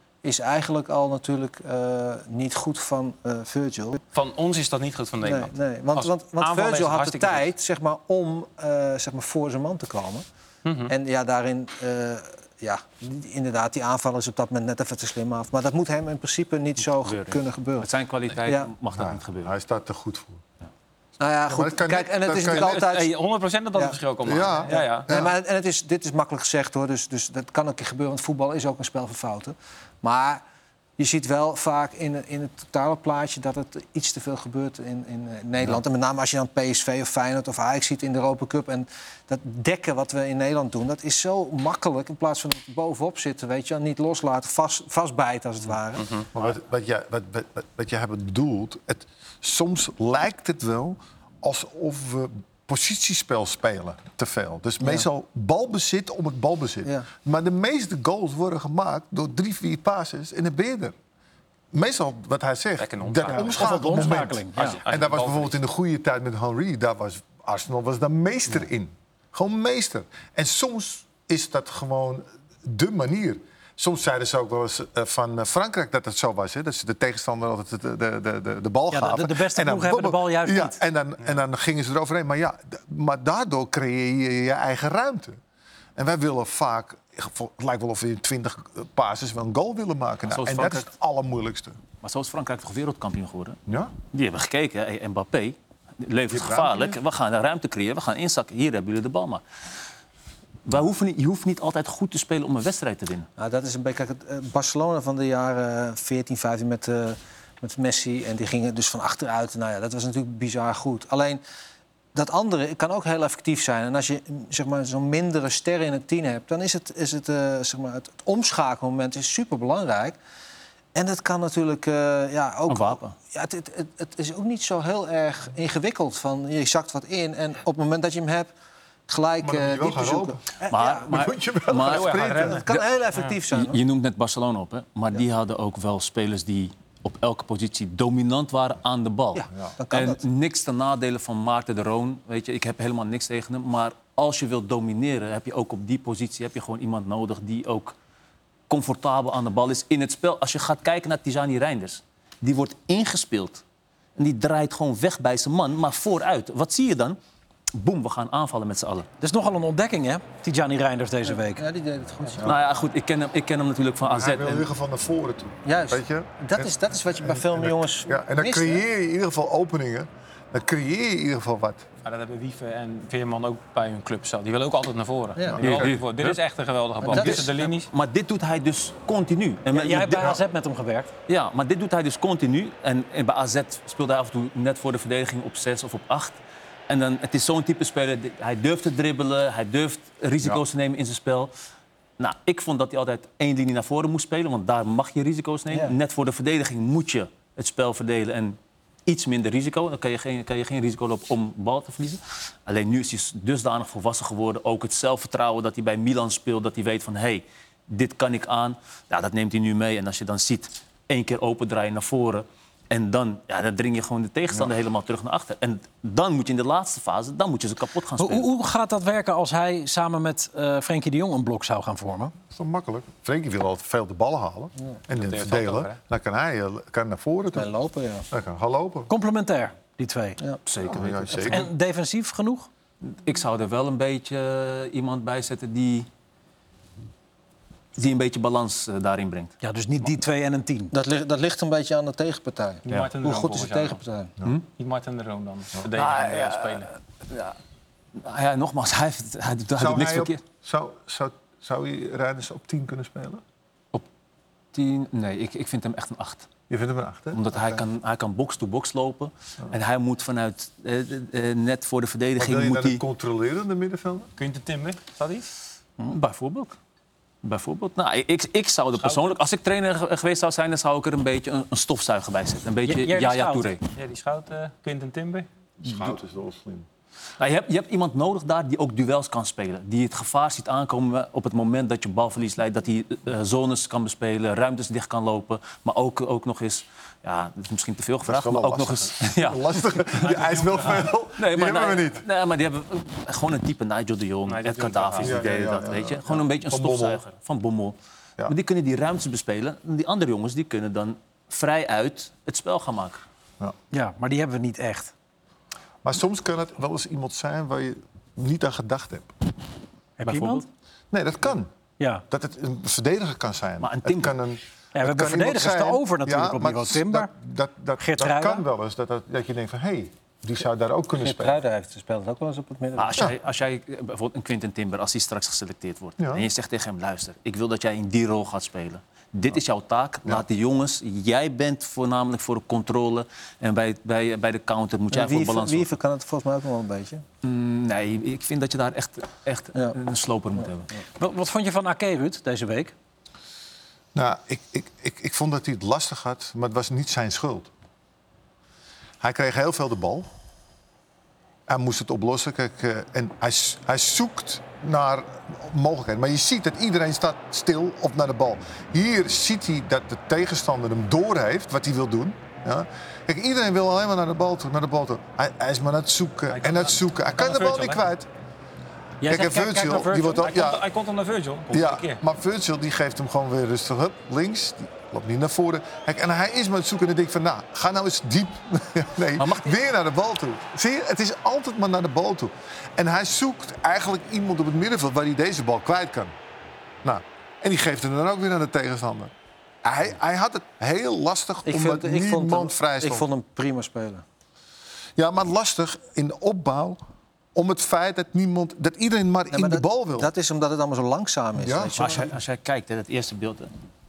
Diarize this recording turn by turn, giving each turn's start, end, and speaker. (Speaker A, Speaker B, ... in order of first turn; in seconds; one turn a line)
Speaker A: 0.2-4.0
Speaker B: 4.1-7.5
Speaker A: 5.2-10.2
Speaker B: 10.7-10.9
Speaker A: 10.9-17.9
Speaker C: 16.9-19.5
Speaker A: 18.4-18.7
Speaker D: 18.9-20.4
Speaker A: 21.2-23.1
Speaker D: 21.5-22.8
Speaker B: 22.4-25.1
Speaker D: 24.2-25.3
Speaker A: 24.7-30.4
Speaker A: 31.0-46.1
Speaker B: 46.0-46.3
Speaker D: 46.4-61.0
Speaker A: 54.8-55.1
Speaker D: 61.7-85.4
Speaker B: 62.8-65.6
Speaker E: 63.5-64.8
Speaker E: 78.9-80.8
Speaker D: 86.0-91.8
Speaker C: 90.3-90.9
Speaker C: 92.0-93.6
Speaker D: 93.7-94.0
Speaker C: 94.1-99.4
Speaker D: 96.3-97.0
Speaker C: 100.7-103.3
Speaker A: 103.4-111.4
Speaker A: 112.1-120.2
Speaker A: 121.0-128.5
Speaker C: 122.7-123.2
Speaker A: 129.1-131.1
Speaker D: 129.4-130.5
Speaker C: 130.7-132.6
Speaker D: 131.0-132.7
Speaker B: 131.8-132.7
Speaker A: 132.5-133.8
Speaker C: 133.5-147.9
Speaker A: 139.3-140.2
Speaker C: 148.7-153.6
Speaker C: 154.2-157.2
Speaker C: 157.8-159.1
Speaker E: 159.2-161.6
Speaker A: 161.3-162.6
Speaker C: 162.4-164.7
Speaker D: 164.1-171.9
Speaker A: 165.7-168.8
Speaker B: 172.0-177.9
Speaker D: 175.6-175.9
Speaker C: 175.6-176.4
Speaker C: 177.1-180.4
Speaker A: 177.1-177.5
Speaker E: 179.7-181.1
Speaker C: 181.3-186.4
Speaker C: 186.9-191.5
Speaker C: 192.2-218.5
Speaker E: 218.2-222.3
Speaker D: 222.5-227.7
Speaker B: 225.1-226.0
Speaker A: 227.5-228.3
Speaker D: 228.3-229.1
Speaker E: 229.1-230.4
Speaker C: 230.7-231.6
Speaker D: 230.8-231.7
Speaker E: 231.5-232.7
Speaker C: 233.0-236.1
Speaker C: 238.0-239.5
Speaker E: 239.6-240.9
Speaker A: 240.9-244.3
Speaker B: 242.9-244.0
Speaker B: 244.8-246.9
Speaker C: 245.9-247.6
Speaker C: 248.2-250.4
Speaker D: 249.8-253.4
Speaker C: 254.7-256.5
Speaker D: 256.7-257.8
Speaker C: 257.3-263.0
Speaker D: 262.4-264.3
Speaker B: 264.4-265.5
Speaker C: 266.0-266.8
Speaker C: 267.4-273.8
Speaker E: 272.9-273.7
Speaker B: 273.9-275.5
Speaker D: 275.8-276.9
Speaker C: 277.4-290.4
Speaker D: 288.3-292.2
Speaker B: 290.4-290.8
Speaker C: 291.4-303.2
Speaker B: 294.5-295.5
Speaker D: 295.2-297.2
Speaker E: 303.9-305.1
Speaker D: 306.0-309.3
Speaker E: 310.2-310.6
Speaker C: 310.2-310.6
Speaker D: 311.1-311.7
Speaker E: 312.0-312.2
Speaker D: 312.3-321.6
Speaker C: 313.8-314.4
Speaker E: 314.9-317.3
Speaker E: 318.0-318.6
Speaker A: 321.2-323.3
Speaker C: 323.0-336.0
Speaker D: 326.2-326.5
Speaker A: 335.1-337.2
Speaker C: 337.4-340.9
Speaker E: 341.2-342.9
Speaker D: 344.1-347.7
Speaker D: 349.2-350.3
Speaker D: 351.7-368.3
Speaker B: 366.5-368.0
Speaker E: 369.2-370.5
Speaker D: 369.2-370.9
Speaker B: 370.4-372.2
Speaker D: 371.7-386.3
Speaker C: 379.4-379.7
Speaker D: 387.0-389.3
Speaker D: 389.8-393.3
Speaker A: 391.7-394.2
Speaker D: 395.2-397.0
Speaker D: 397.6-400.3
Speaker A: 399.5-402.3
Speaker D: 401.6-402.0
Speaker C: 402.0-403.7